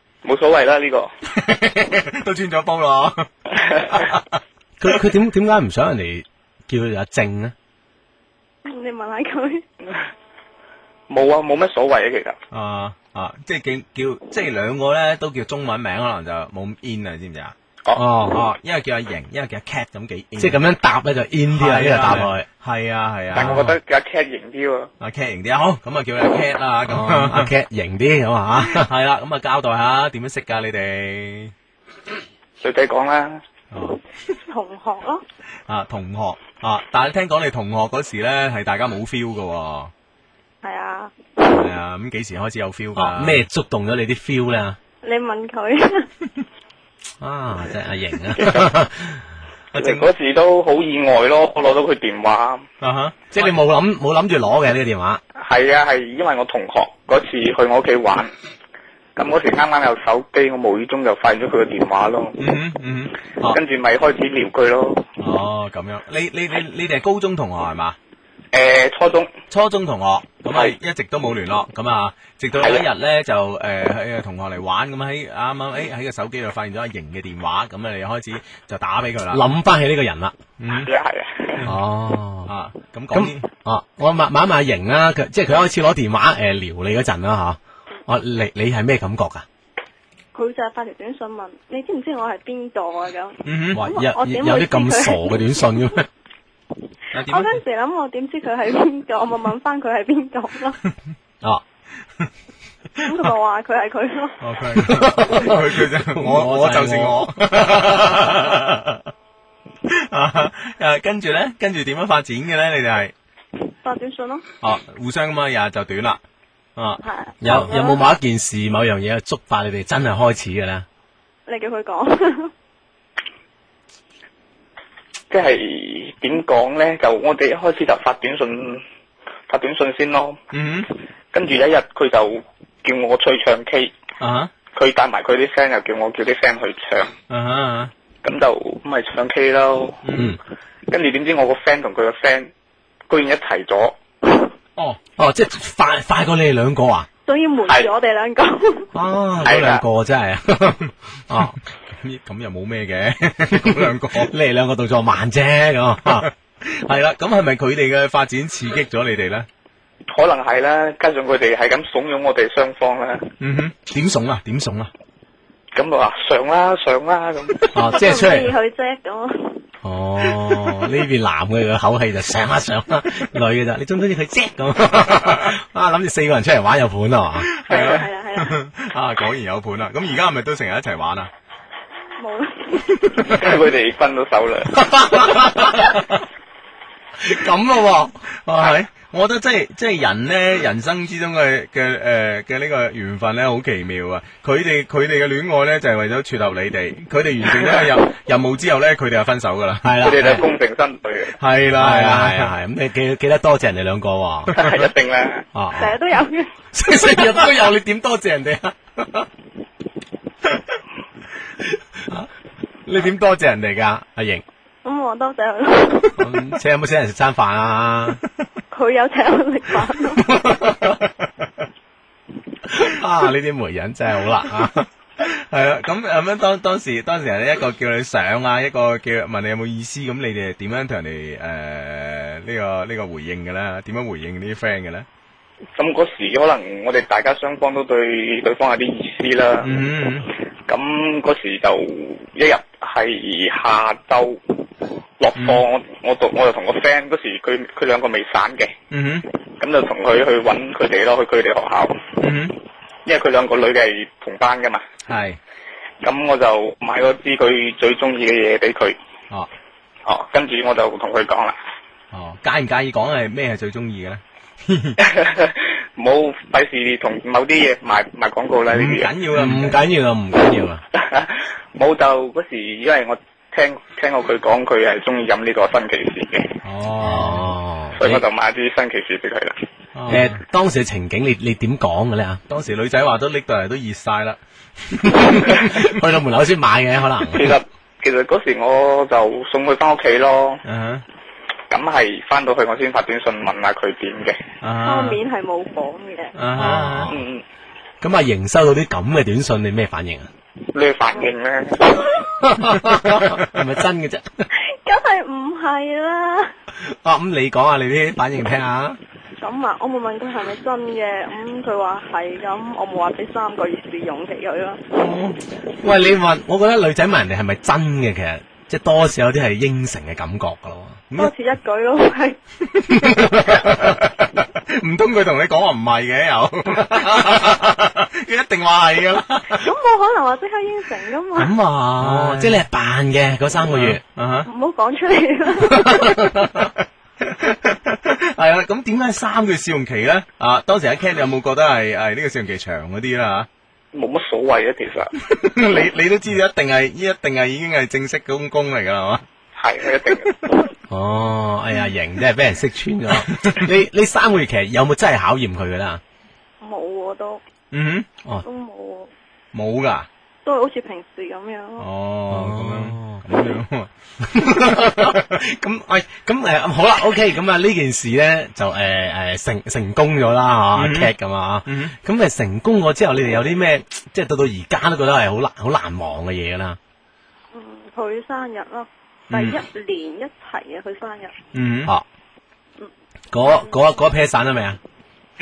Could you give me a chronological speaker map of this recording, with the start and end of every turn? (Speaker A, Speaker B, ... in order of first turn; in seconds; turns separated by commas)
Speaker A: 0.2-1.1, Speaker B: 1.3-3.3, Speaker A: 3.6-4.0, Speaker B: 3.9-4.3, Speaker C: 4.8-7.5, Speaker D: 8.6-9.6, Speaker A: 11.1-12.4, Speaker B: 12.5-17.5, Speaker C: 17.9-18.4, Speaker B: 18.3-20.6, Speaker C: 20.4-22.4, Speaker B: 21.5-23.7, Speaker A: 23.3-24.9, Speaker C: 23.4-23.7, Speaker B: 25.0-27.5, Speaker C: 26.9-28.9, Speaker B: 28.6-31.5, Speaker A: 32.6-33.4, Speaker B: 33.7-34.0, Speaker D: 34.5-35.2, Speaker B: 35.7-39.9, Speaker D: 40.6-41.3, Speaker B: 41.5-43.4, Speaker C: 43.0-44.8, Speaker D: 45.0-46.1, Speaker C: 47.2-49.2, Speaker A: 48.4-48.7, Speaker B: 49.7-50.1, Speaker A: 49.8-52.6, Speaker B: 52.8-53.5, Speaker C: 53.3-55.2, Speaker A: 55.4-58.3, Speaker A: 59.1-62.4, Speaker B: 62.4-63.6, Speaker A: 63.4-65.0, Speaker B: 65.2-68.0, Speaker A: 68.5-69.3, Speaker B: 69.5-79.5, Speaker A: 72.5-72.8, Speaker C: 79.3-80.3, Speaker B: 80.6-80.9, Speaker A: 80.7-81.6, Speaker C: 81.6-82.5, Speaker B: 82.5-83.5, Speaker C: 83.1-89.5, Speaker D: 90.3-95.3, Speaker B: 93.4-93.8, Speaker C: 93.7-96.1, Speaker B: 97.1-97.6, Speaker D: 97.2-100.8, Speaker D: 103.0-104.3, Speaker B: 104.4-109.0, Speaker C: 104.7-108.5, Speaker B: 109.9-113.1, Speaker D: 113.8-114.4, Speaker B: 114.6-116.2, Speaker B: 116.8-117.7, Speaker D: 117.0-118.1, Speaker C: 117.4-120.8, Speaker D: 121.5-122.5, Speaker A: 125.3-128.8, Speaker A: 129.5-130.4, Speaker B: 130.5-130.9, Speaker A: 131.3-133.9, Speaker B: 134.2-134.5, Speaker A: 134.7-137.1, Speaker B: 137.3-137.9, Speaker A: 138.2-140.0, Speaker B: 140.0-140.3, Speaker A: 140.9-142.5, Speaker A: 143.1-143.9, Speaker C: 145.2-147.1, Speaker D: 147.3-148.9, Speaker C: 148.9-151.6, Speaker A: 149.4-149.8, Speaker B: 151.9-154.3, Speaker C: 153.5-156.3, Speaker B: 156.1-159.5, Speaker A: 160.1-163.2, Speaker B: 163.4-164.9, Speaker A: 165.7-167.7, Speaker C: 167.7-168.5, Speaker D: 167.9-169.6, Speaker C: 169.8-177.5, Speaker B: 177.4-181.3, Speaker D: 177.7-178.5, Speaker D: 182.2-183.3, Speaker A: 183.2-185.3, Speaker B: 183.3-183.5, Speaker C: 184.8-186.0, Speaker C: 187.2-188.2, Speaker B: 188.4-200.4, Speaker C: 199.8-200.4, Speaker A: 200.0-201.4, Speaker B: 201.4-202.5, Speaker C: 201.8-204.6, Speaker A: 204.5-205.4, Speaker C: 205.5-206.0, Speaker D: 205.7-206.5, Speaker C: 206.7-209.3, Speaker C: 211.9-212.3, Speaker C: 212.8-214.4, Speaker D: 214.8-216.3, Speaker C: 216.2-218.2, Speaker D: 218.7-220.3, Speaker C: 220.2-221.0, Speaker C: 222.7-224.9, Speaker B: 225.2-235.1, Speaker A: 235.8-239.7, Speaker B: 239.6-240.2, Speaker A: 240.7-244.4, Speaker A: 245.2-248.7, Speaker B: 245.3-245.6, Speaker B: 248.9-249.2, Speaker A: 249.6-252.0, Speaker B: 252.2-252.6, Speaker A: 253.0-254.8, Speaker B: 255.1-255.4, Speaker A: 256.0-259.0, Speaker A: 260.1-261.6, Speaker B: 262.1-265.0, Speaker A: 265.0-269.1, Speaker B: 268.7-269.8, Speaker C: 269.3-270.8, Speaker A: 270.9-276.5, Speaker B: 276.6-277.4, Speaker C: 277.0-278.2, Speaker A: 277.9-279.6, Speaker B: 279.9-280.4, Speaker C: 280.1-282.4, Speaker B: 282.5-285.9, Speaker C: 285.1-287.5, Speaker A: 287.3-290.6, Speaker B: 290.6-291.0, Speaker A: 291.7-294.4, Speaker B: 294.6-295.2, Speaker D: 294.8-296.3, Speaker B: 296.3-297.1, Speaker C: 296.5-297.2, Speaker A: 297.1-297.4, Speaker C: 298.0-300.3, Speaker A: 300.7-302.1, Speaker C: 302.4-304.5, Speaker D: 304.5-306.5, Speaker C: 306.8-309.0, Speaker D: 309.4-314.8, Speaker B: 314.9-315.4, Speaker C: 315.7-321.0, Speaker D: 321.1-322.4, Speaker B: 322.8-329.6, Speaker C: 323.0-323.9, Speaker C: 326.9-327.5, Speaker D: 329.5-331.5, Speaker B: 331.4-332.6, Speaker C: 332.0-334.0, Speaker B: 333.7-334.5, Speaker D: 334.4-336.3, Speaker C: 335.6-336.7, Speaker B: 337.2-343.5, Speaker A: 343.9-345.1, Speaker B: 345.2-349.2, Speaker A: 349.6-350.4, Speaker C: 350.9-356.0, Speaker B: 353.3-353.6, Speaker D: 356.6-357.4, Speaker B: 357.7-358.1, Speaker D: 358.4-359.1, Speaker B: 359.5-360.1, Speaker D: 360.4-361.9, Speaker B: 361.8-365.2, Speaker C: 362.3-363.2, Speaker C: 364.2-376.8, Speaker B: 370.7-371.1, Speaker B: 371.6-371.9, Speaker D: 377.5-381.3, Speaker B: 379.3-379.6, Speaker B: 381.5-381.9, Speaker C: 383.3-384.8